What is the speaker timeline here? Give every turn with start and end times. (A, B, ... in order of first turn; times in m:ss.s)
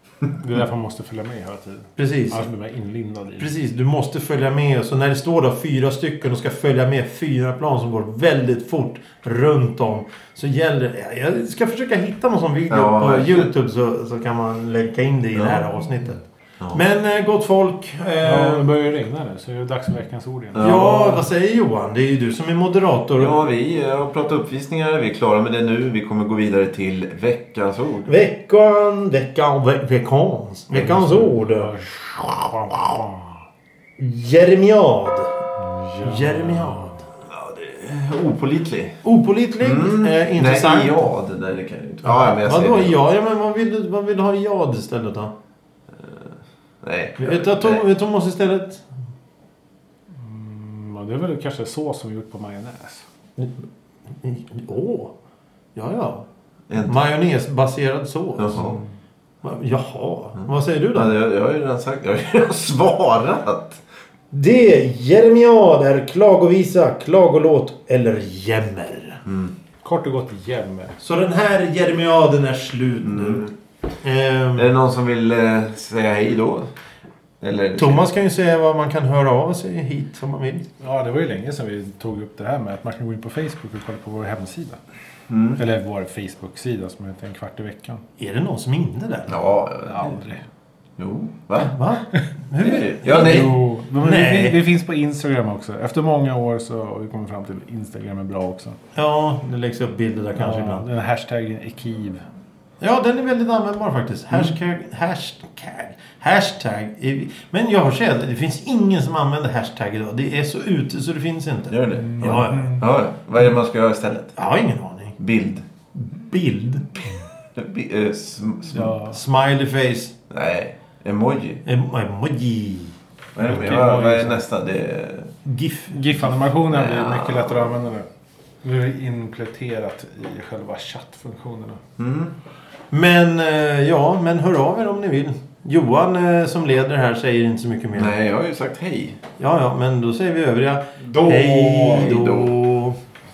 0:00.4-0:03.5 A
0:02.0-0:02.4 B
0:03.4-0:18.7 B
0:12.7-0:13.5 C
0:15.4-0:15.6 C
0:18.2-0:20.7 A
0:20.5-0:21.3 C
0:20.6-0:23.4 B
0:23.2-0:28.1 C
0:28.1-0:32.3 B
0:30.7-0:33.3 A
0:34.0-0:35.4 B
0:35.6-0:36.9 A
0:36.0-0:37.0 B
0:37.3-0:39.0 C
0:39.0-0:41.1 B
0:39.6-0:43.0 C
0:42.0-0:45.3 B
0:46.0-0:47.8 C
0:47.2-0:48.8 B
0:50.2-0:53.0 A
0:54.2-0:55.1 B
0:55.8-0:56.2 B
0:56.7-0:57.0 C
0:56.8-0:58.8 B
0:58.4-0:58.8 C
0:59.4-1:01.2 B
1:00.9-1:03.8 C
1:04.3-1:09.2 B
1:09.3-1:09.5 C
1:09.8-1:11.0 A
1:11.0-1:13.5 B
1:13.0-1:13.5 C
1:14.0-1:14.7 B
1:14.6-1:16.7 C
1:17.4-1:18.1 C
1:17.8-1:20.7 B
1:20.8-1:24.8 A
1:25.3-1:25.6 C
1:25.6-1:28.0 A
1:28.2-1:29.3 B
1:29.3-1:30.2 C
1:29.8-1:30.4 A
1:31.0-1:31.7 C
1:31.6-1:34.6 B
1:32.6-1:33.5 C
1:33.1-1:38.8 A
1:39.0-1:40.9 B
1:40.4-1:42.2 A
1:42.8-1:52.8 B
1:51.7-1:54.4 C
1:52.0-1:52.8 A
1:54.4-1:55.2 B
1:55.2-1:55.6 C
1:55.9-1:57.2 B
1:57.6-1:59.0 C
1:58.7-1:59.2 A
1:59.1-2:00.2 B
2:00.3-2:01.6 C
2:01.6-2:03.0 B
2:03.4-2:05.4 C
2:03.4-2:04.4 A
2:05.4-2:06.0 B
2:05.9-2:08.1 A
2:06.7-2:07.7 C
2:08.6-2:11.8 A
2:12.0-2:12.4 C
2:12.9-2:18.1 B
2:18.0-2:19.2 C
2:19.4-2:23.0 B
2:21.0-2:22.5 C